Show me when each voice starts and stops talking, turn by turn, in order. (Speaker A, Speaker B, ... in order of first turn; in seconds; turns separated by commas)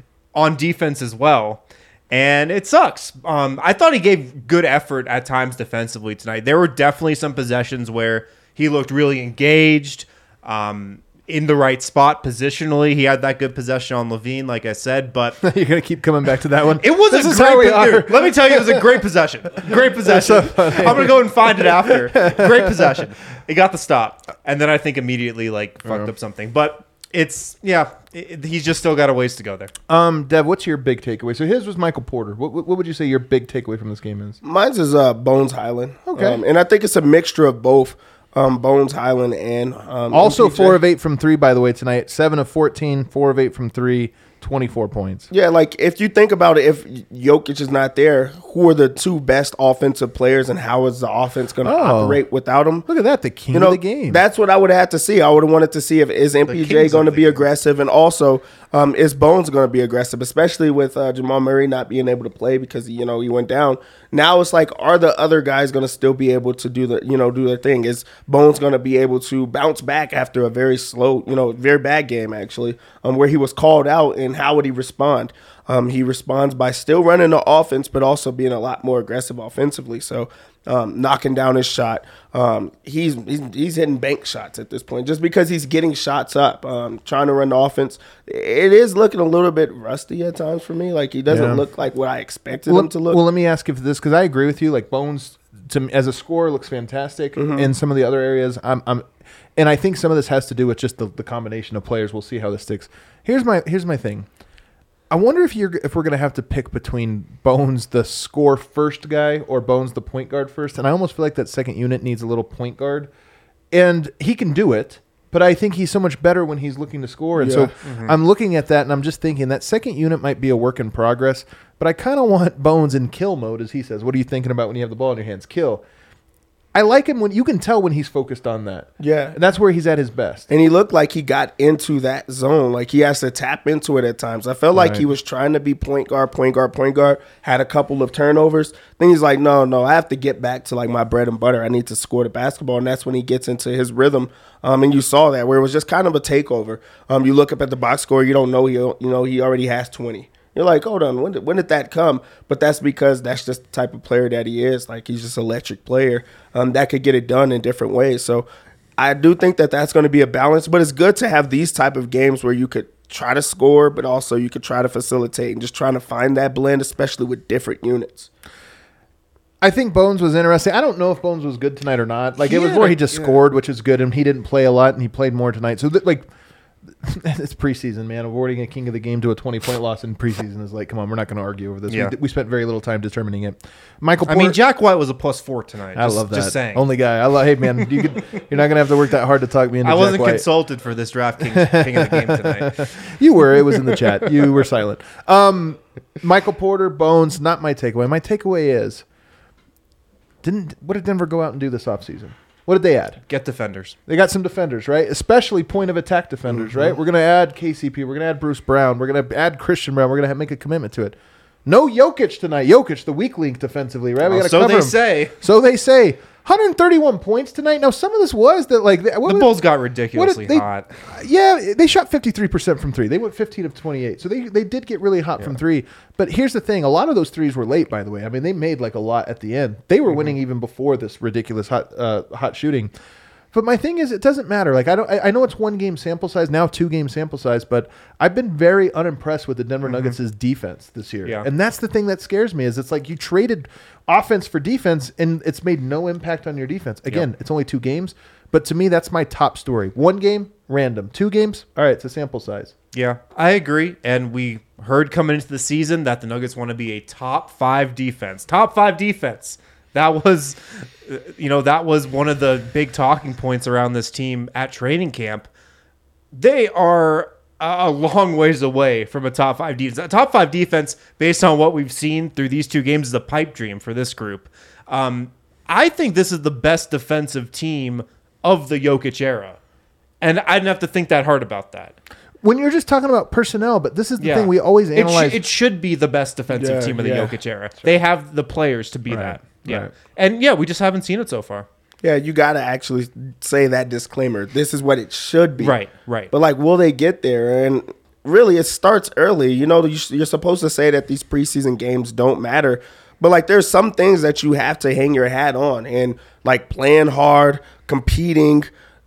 Speaker A: 0.3-15.4, Speaker B: 15.4-19.0, Speaker A: 16.8-29.7, Speaker B: 19.6-23.0, Speaker B: 25.8-26.1, Speaker B: 29.9-34.4, Speaker C: 34.4-40.8, Speaker B: 36.1-36.4, Speaker B: 40.1-45.3, Speaker C: 45.3-52.9, Speaker B: 51.6-52.2, Speaker B: 52.9-54.2, Speaker C: 53.5-93.2, Speaker A: 56.5-57.4, Speaker B: 91.3-91.6, Speaker B: 92.7-104.3, Speaker C: 97.3-97.7, Speaker B: 105.1-113.1, Speaker B: 113.7-125.8, Speaker C: 117.3-117.7, Speaker A: 117.8-118.1, Speaker B: 126.7-130.5, Speaker C: 129.0-129.3, Speaker C: 130.5-158.5, Speaker B: 134.7-135.1, Speaker C: 159.0-168.3, Speaker B: 169.6-176.3, Speaker A: 172.4-173.4, Speaker B: 176.9-184.6, Speaker A: 181.9-182.1, Speaker A: 184.3-186.8, Speaker B: 185.9-190.4, Speaker A: 189.8-192.9, Speaker B: 191.4-199.0, Speaker A: 193.7-194.2, Speaker B: 200.4-203.2, Speaker A: 203.3-204.0, Speaker B: 204.1-219.5, Speaker A: 206.5-206.9, Speaker A: 214.2-215.3, Speaker A: 219.2-220.9, Speaker B: 220.1-232.9, Speaker A: 230.1-230.3, Speaker B: 233.5-252.7, Speaker A: 239.9-240.1, Speaker A: 252.9-265.5, Speaker A: 266.3-279.6, Speaker A: 280.2-281.9, Speaker B: 282.4-285.4, Speaker A: 284.2-291.7, Speaker B: 286.6-287.9, Speaker B: 289.1-289.9, Speaker C: 292.0-295.8, Speaker A: 295.6-296.3, Speaker C: 296.3-308.7